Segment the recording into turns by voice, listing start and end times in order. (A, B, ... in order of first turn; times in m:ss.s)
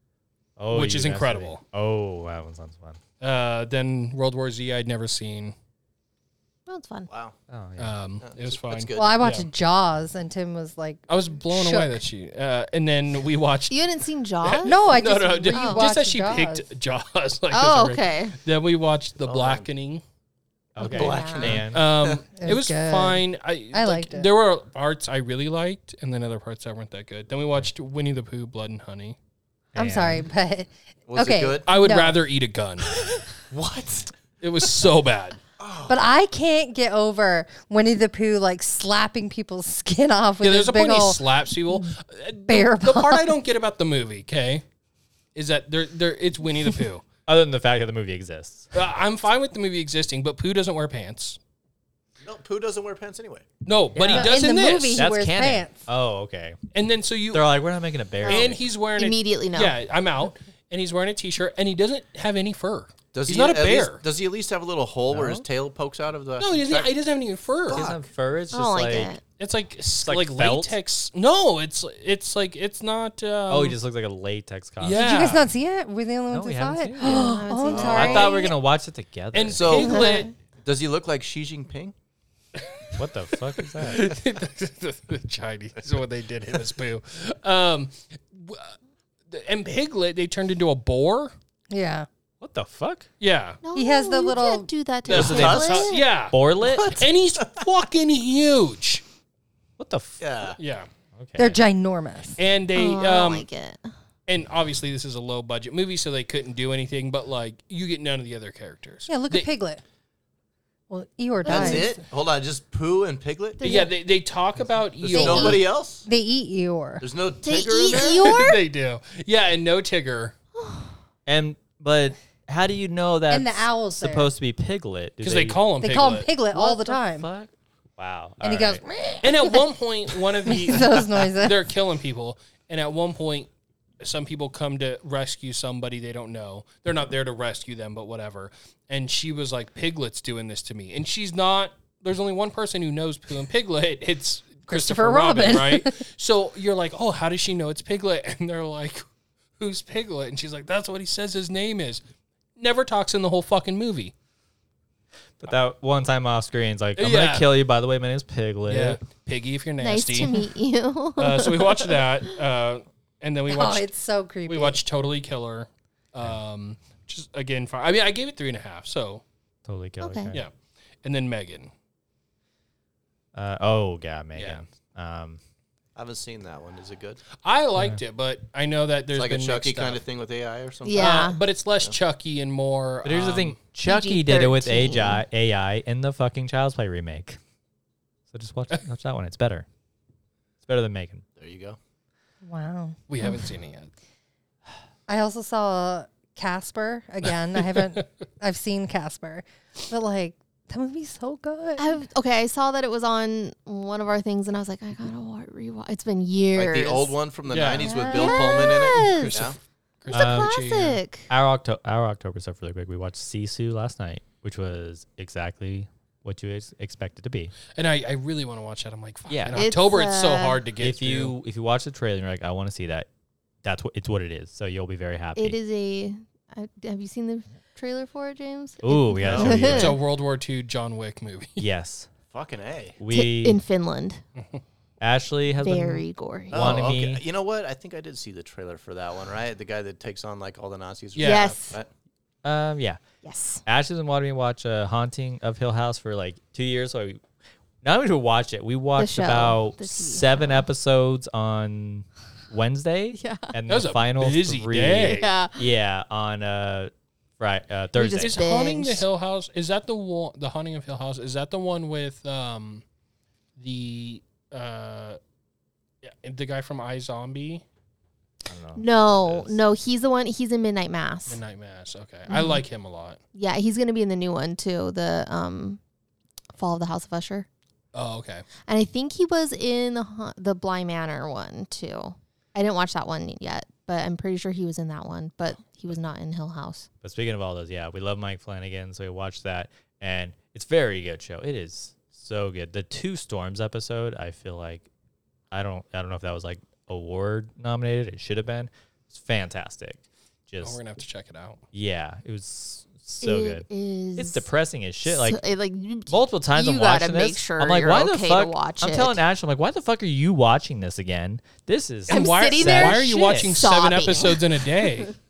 0:00.6-0:03.0 A
0:00.7-0:01.6 B
0:03.2-0:05.5 B
0:06.7-0:07.1 C
0:07.1-0:07.3 D
0:07.5-0:08.0 A
0:07.8-0:09.5 B
0:08.2-0:09.2 D
0:09.0-0:12.0 E
0:11.1-0:13.8 B
0:13.7-0:14.8 C
0:14.4-0:20.0 B
0:14.6-0:16.6 E
0:15.5-0:15.8 C
0:17.5-0:18.4 C
0:19.2-0:19.7 D
0:20.8-0:21.9 A
0:20.8-0:22.2 D
0:20.8-0:21.6 C
0:21.7-0:29.2 B
0:22.4-0:24.3 E
0:29.8-0:30.3 A
0:29.8-0:32.2 E
0:31.1-0:31.7 D
0:31.6-0:32.9 B
0:33.0-0:34.1 D
0:34.4-0:35.4 B
0:35.6-0:36.0 D
0:35.9-0:42.0 E
0:40.4-0:44.6 B
0:42.5-0:43.3 E
0:45.3-0:47.0 B
0:47.3-0:48.7 A
0:48.7-0:51.4 B
0:52.2-0:53.5 D
0:53.6-0:55.0 B
0:54.0-0:54.4 A
0:54.0-0:55.8 E
0:54.9-0:56.6 A
0:56.7-0:57.5 B
0:57.3-0:58.6 A
0:58.2-0:59.7 C
0:58.2-1:04.0 B
1:03.1-1:06.9 D
1:05.1-1:05.4 B
1:06.4-1:07.8 B
1:07.7-1:08.0 D
1:07.7-1:09.1 A
1:08.5-1:09.2 C
1:09.4-1:13.8 B
1:10.0-1:10.8 A
1:13.5-1:15.2 A
1:14.8-1:15.5 B
1:14.9-1:18.3 E
1:16.3-1:20.0 A
1:17.0-1:18.6 C
1:17.7-1:18.3 D
1:19.3-1:20.3 B
1:19.5-1:21.9 D
1:19.8-1:20.3 C
1:22.6-1:23.0 B
1:23.0-1:24.1 A
1:23.6-1:28.7 B
1:29.3-1:31.3 B
1:31.7-1:32.1 E
1:32.4-1:33.1 A
1:33.2-1:33.6 B
1:33.6-1:36.1 C
1:33.7-1:34.7 E
1:35.1-1:36.4 B
1:35.1-1:37.1 A
1:35.1-1:35.9 D
1:36.6-1:37.6 D
1:37.0-1:39.0 B
1:39.8-1:40.2 A
1:40.2-1:40.6 D
1:40.6-1:40.9 B
1:41.2-1:41.6 A
1:41.4-1:42.4 E
1:42.4-1:43.4 B
1:42.7-1:43.9 C
1:44.3-1:49.5 B
1:49.1-1:49.8 E
1:50.9-1:51.9 E
1:51.4-1:53.6 D
1:53.6-1:53.9 C
1:53.6-1:55.7 B
1:55.0-1:56.0 D
1:55.1-1:57.0 E
1:57.0-1:58.4 D
1:57.4-1:58.6 C
1:58.0-2:00.3 B
2:00.6-2:00.9 C
2:01.2-2:05.6 A
2:03.3-2:04.3 E
2:05.2-2:06.3 B
2:05.8-2:07.3 E
2:06.5-2:08.8 A
2:08.4-2:09.6 E
2:09.2-2:29.0 B
2:10.4-2:11.6 E
2:24.7-2:26.0 E
2:29.6-2:32.0 B
2:32.6-2:34.1 B
2:35.4-2:39.0 A
2:37.0-2:37.5 B
2:38.7-2:40.4 B
2:39.8-2:42.0 C
2:41.2-2:43.9 B
2:43.5-2:44.8 E
2:44.5-2:49.2 B
2:49.6-2:50.4 A
2:50.0-2:50.3 C
2:50.3-2:51.7 B
2:53.3-2:55.4 A
2:54.3-2:54.6 B
2:56.0-2:57.2 D
2:57.3-3:00.0 B
2:59.1-3:01.9 D
3:00.8-3:01.4 C
3:01.0-3:03.6 B
3:03.0-3:07.4 A
3:03.8-3:05.2 C
3:08.3-3:09.6 A
3:10.6-3:11.2 A
3:11.4-3:11.8 D
3:12.4-3:13.4 E
3:13.1-3:13.9 B
3:15.1-3:22.0 E
3:21.8-3:27.2 C
3:26.6-3:29.6 D
3:27.5-3:31.0 B
3:27.8-3:29.4 C
3:27.8-3:28.2 E
3:30.1-3:31.3 C
3:30.1-3:30.6 A
3:31.3-3:37.5 A
3:37.7-3:41.3 B
3:39.3-3:39.7 A
3:39.5-3:40.6 C
3:40.8-3:43.1 A
3:43.6-3:45.6 A
3:45.4-3:49.9 C
3:48.8-3:50.0 A
3:49.2-3:49.7 D
3:49.5-3:51.6 B
3:51.6-3:52.1 A
3:52.3-3:53.0 D
3:53.0-3:53.6 A
3:53.1-3:54.2 C
3:55.0-3:57.2 A
3:55.6-3:56.8 C
3:56.5-4:01.9 D
4:01.1-4:01.6 B
4:01.2-4:01.8 C
4:02.4-4:03.0 A
4:03.2-4:03.6 C
4:03.6-4:07.2 A
4:07.8-4:18.4 A
4:09.0-4:10.6 C
4:13.2-4:13.5 C
4:13.7-4:15.3 B
4:15.2-4:15.6 C
4:18.0-4:19.0 C
4:18.0-4:22.8 B
4:23.6-4:25.2 B
4:26.0-4:27.6 B
4:28.4-4:29.5 A
4:28.8-4:31.4 C
4:31.3-4:33.2 B
4:32.3-4:32.6 C
4:33.3-4:35.8 C
4:36.6-4:37.5 C
4:37.9-4:38.5 B
4:38.7-4:46.9 C
4:47.0-4:54.9 A
4:55.5-5:00.8 A
5:00.6-5:01.6 B
5:01.7-5:05.4 A
5:03.2-5:04.5 C
5:05.0-5:09.2 C
5:06.1-5:13.6 A
5:12.1-5:15.1 B
5:12.1-5:15.1 C